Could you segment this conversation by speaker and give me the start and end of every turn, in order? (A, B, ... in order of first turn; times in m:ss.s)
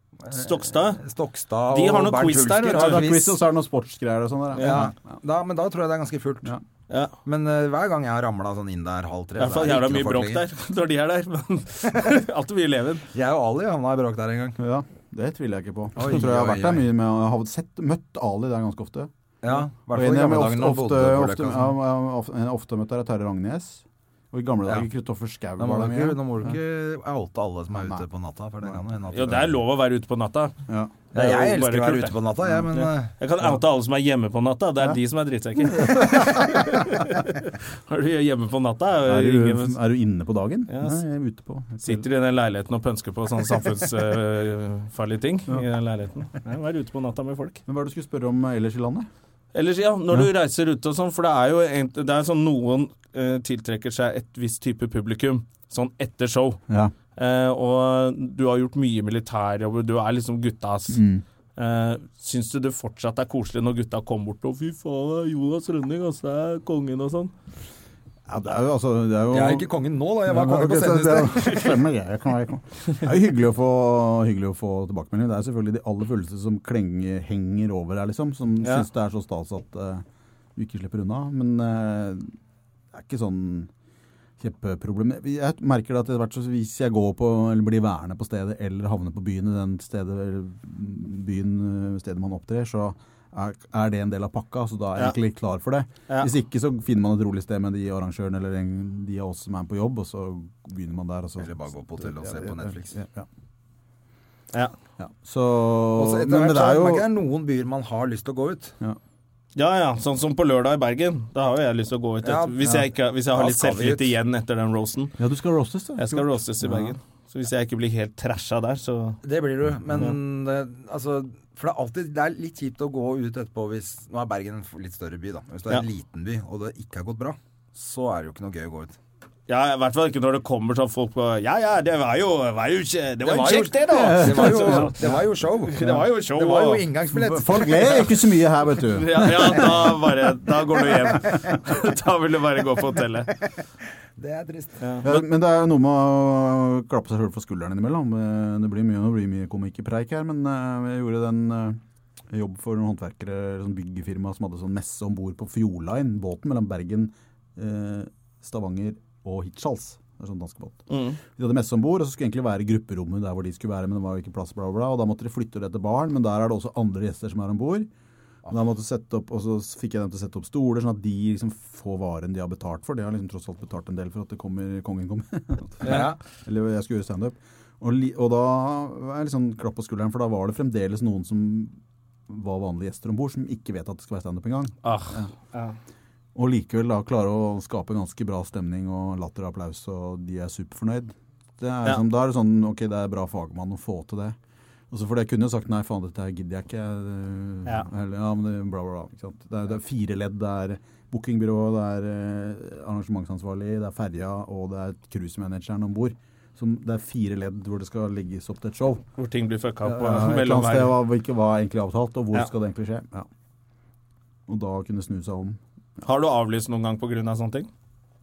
0:00.2-0:03.4 A
0:00.3-0:01.0 B
0:01.7-0:03.1 B
0:02.7-0:04.9 C
0:04.6-0:04.9 B
0:04.6-0:06.6 A
0:07.2-0:10.4 A
0:09.4-0:13.0 B
0:13.1-0:14.6 A
0:14.6-0:26.5 C
0:16.0-0:16.9 A
0:19.4-0:21.8 A
0:25.6-0:29.6 A
0:27.7-0:28.0 C
0:29.1-0:30.6 B
0:30.7-0:31.0 C
0:31.1-0:33.1 A
0:31.1-0:32.2 B
0:32.7-0:39.8 B
0:35.6-0:37.0 C
0:39.0-0:42.0 C
0:40.7-0:41.0 B
0:41.8-0:47.6 B
0:47.7-0:49.1 C
0:49.5-0:56.6 B
0:56.7-0:56.9 C
0:57.2-1:01.0 B
1:00.9-1:01.2 C
1:01.6-1:07.3 B
1:08.3-1:09.7 C
1:09.3-1:11.8 A
1:10.2-1:20.0 C
1:20.6-1:22.4 C
1:22.9-1:23.7 C
1:24.4-1:43.3 C
1:41.4-1:43.0 A
1:45.0-1:47.1 C
1:46.0-1:48.7 A
1:49.6-1:55.1 B
1:52.2-1:54.1 A
1:55.2-1:57.0 C
1:56.0-1:59.2 B
1:59.2-2:09.0 A
2:09.5-2:16.8 B
2:13.2-2:18.1 A
2:13.9-2:15.2 C
2:15.8-2:16.0 C
2:17.1-2:20.0 C
2:18.9-2:23.3 B
2:20.9-2:21.6 C
2:24.2-2:24.8 A
2:24.8-2:25.2 B
2:25.0-2:47.9 C
2:40.9-2:41.2 B
2:48.5-3:05.3 C
2:55.8-2:56.2 A
3:04.8-3:05.8 B
3:06.4-3:14.4 C
3:14.9-3:29.0 C
3:29.2-3:31.0 B
3:29.8-3:33.3 C
3:34.5-3:35.6 C
3:36.0-3:37.7 B